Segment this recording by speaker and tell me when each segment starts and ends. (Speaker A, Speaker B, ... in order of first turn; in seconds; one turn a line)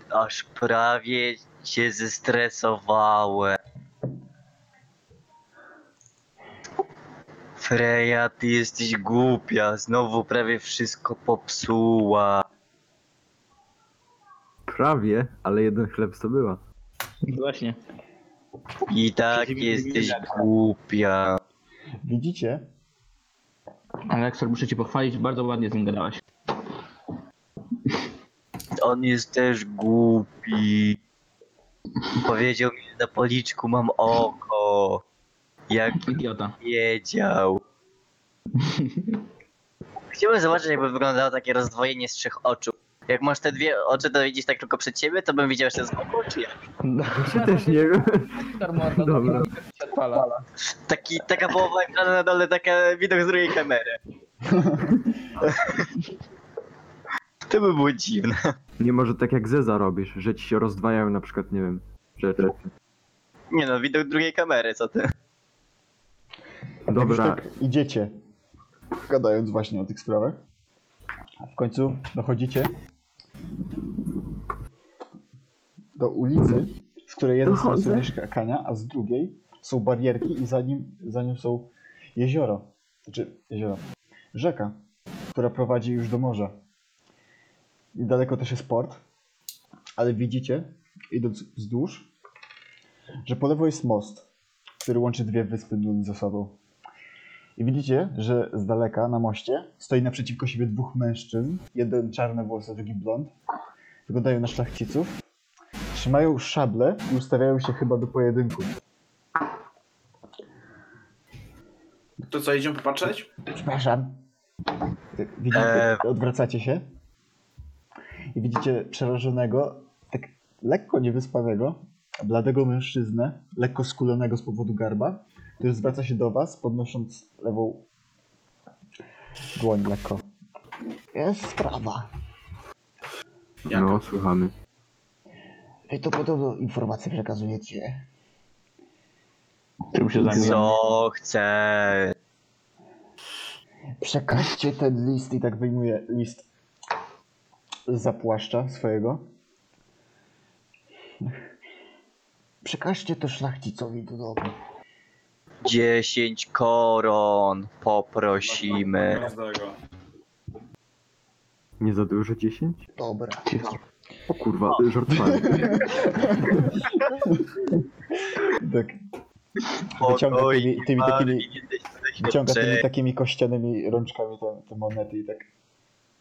Speaker A: 0.1-3.6
Speaker A: 7.6-12.4
Speaker B: 14.7-16.6
Speaker C: 17.2-17.8
Speaker A: 18.9-21.4
Speaker C: 19.3-20.5
Speaker D: 22.0-22.6
Speaker C: 24.1-26.2
Speaker A: 28.8-31.0
Speaker A: 32.2-35.0
Speaker A: 35.7-37.6
Speaker C: 36.0-36.6
Speaker C: 38.5-39.2
Speaker A: 40.1-46.6
Speaker C: 46.8-50.4
Speaker B: 47.1-49.5
Speaker A: 50.7-54.0
Speaker D: 54.5-55.0
Speaker A: 55.4-55.9
Speaker A: 57.5-58.5
Speaker B: 58.8-62.7
Speaker A: 63.5-65.1
Speaker B: 66.9-67.4
Speaker D: 66.9-68.1
Speaker D: 69.1-70.4
Speaker D: 71.4-72.7
Speaker D: 76.0-83.8
Speaker B: 77.5-78.1
Speaker D: 84.3-84.8
Speaker D: 85.3-86.5
Speaker D: 88.0-89.0
Speaker D: 90.0-92.1
Speaker D: 93.2-94.3
Speaker D: 94.8-96.5
Speaker D: 97.6-103.3
Speaker D: 104.1-105.2
Speaker D: 105.9-108.7
Speaker E: 112.2-113.3
Speaker D: 113.5-114.2
Speaker D: 115.2-116.8
Speaker A: 115.5-116.0
Speaker D: 118.3-127.8
Speaker D: 129.6-130.2
Speaker D: 131.1-132.1
Speaker E: 133.7-134.1
Speaker B: 133.7-134.5
Speaker D: 135.9-138.0
Speaker C: 139.9-140.7
Speaker D: 140.2-140.6
Speaker A: 140.2-142.1
Speaker D: 144.0-146.5
Speaker D: 147.9-149.2
Speaker D: 152.6-154.6
Speaker A: 155.6-159.2
Speaker E: 158.4-159.8
Speaker B: 161.8-162.8
Speaker D: 163.0-163.8
Speaker C: 163.5-163.8
Speaker B: 164.3-165.9
Speaker D: 165.2-167.5
Speaker D: 168.3-169.0
Speaker D: 170.0-171.5
Speaker A: 170.0-172.8
Speaker D: 172.2-175.5